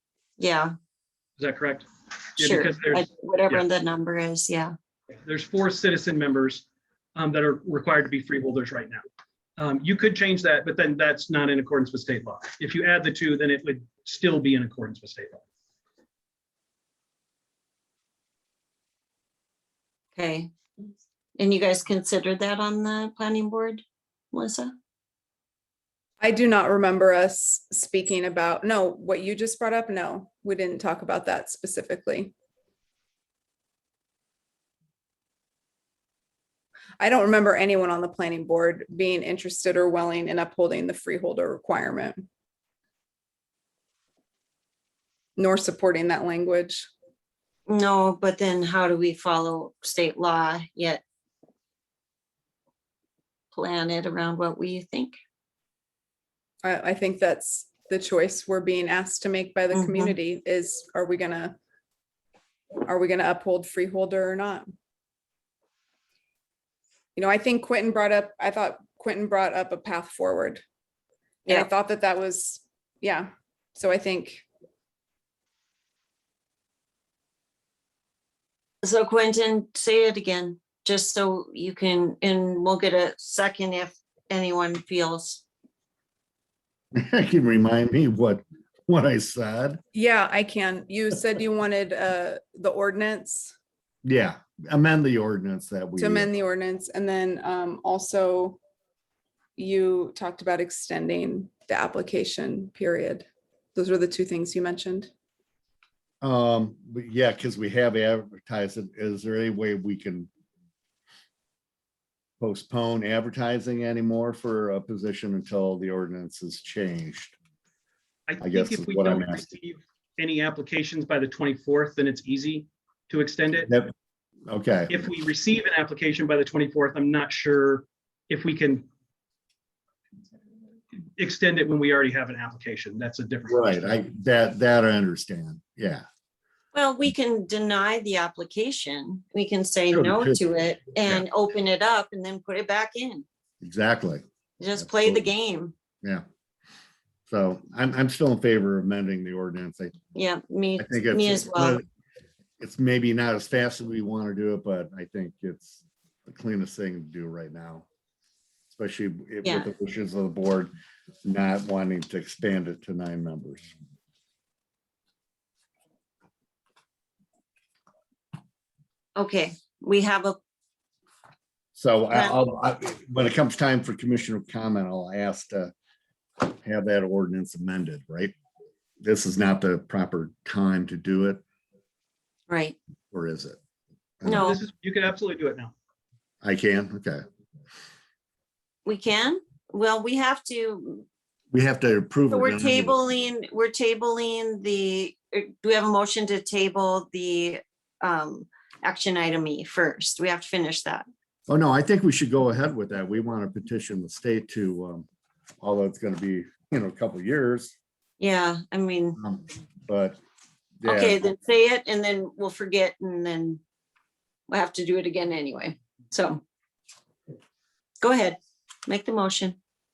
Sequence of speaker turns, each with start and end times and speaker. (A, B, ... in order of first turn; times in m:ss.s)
0:00.4-0:00.7 A
0:01.4-0:01.9 B
0:02.4-0:03.6 B
0:02.4-0:04.7 A
0:05.2-0:06.6 B
0:07.2-0:09.0 B
0:09.6-0:15.4 B
0:20.2-0:20.5 A
0:21.4-0:24.7 A
0:26.2-0:32.3 C
0:37.0-0:42.2 C
0:45.4-0:46.9 C
0:47.7-0:51.0 A
0:53.5-0:55.2 A
0:56.6-1:01.6 C
0:59.7-1:00.1 A
1:02.8-1:04.7 C
1:07.1-1:10.6 C
1:11.5-1:14.4 C
1:18.8-1:25.4 A
1:26.9-1:29.8 D
1:29.9-1:33.5 C
1:34.0-1:36.3 D
1:36.0-1:38.6 C
1:39.6-1:45.1 C
1:46.2-1:50.3 D
1:52.4-1:57.3 D
1:58.3-2:03.7 B
1:58.4-1:59.4 D
2:03.7-2:03.9 D
2:04.5-2:05.0 D
2:04.9-2:08.9 B
2:11.2-2:14.0 B
2:13.5-2:16.0 D
2:16.7-2:23.2 A
2:19.9-2:20.4 D
2:21.0-2:21.2 D
2:23.6-2:24.2 D
2:24.6-2:25.7 A
2:24.8-2:25.2 D
2:27.3-2:30.0 D
2:30.1-2:31.8 A
2:30.8-2:31.8 D
2:32.6-2:37.8 D
2:38.7-2:40.7 D
2:41.2-2:43.7 D
2:49.2-2:50.4 A
2:51.7-2:55.7 D
2:52.1-2:52.4 A
2:56.4-2:58.3 D
2:59.0-3:01.4 D
3:02.5-3:02.8 A
3:03.1-3:03.6 D
3:04.2-3:04.5 D
3:04.2-3:04.6 A
3:04.3-3:05.7 B
3:06.4-3:07.2 D
3:08.8-3:11.0 A
3:11.5-3:13.0 D
3:12.3-3:21.0 A
3:21.5-3:25.0 D
3:25.6-3:27.7 D
3:28.2-3:29.2 A
3:29.2-3:30.2 D
3:30.8-3:31.2 D
3:30.8-3:33.6 A
3:34.5-3:36.4 A
3:38.0-3:39.6 A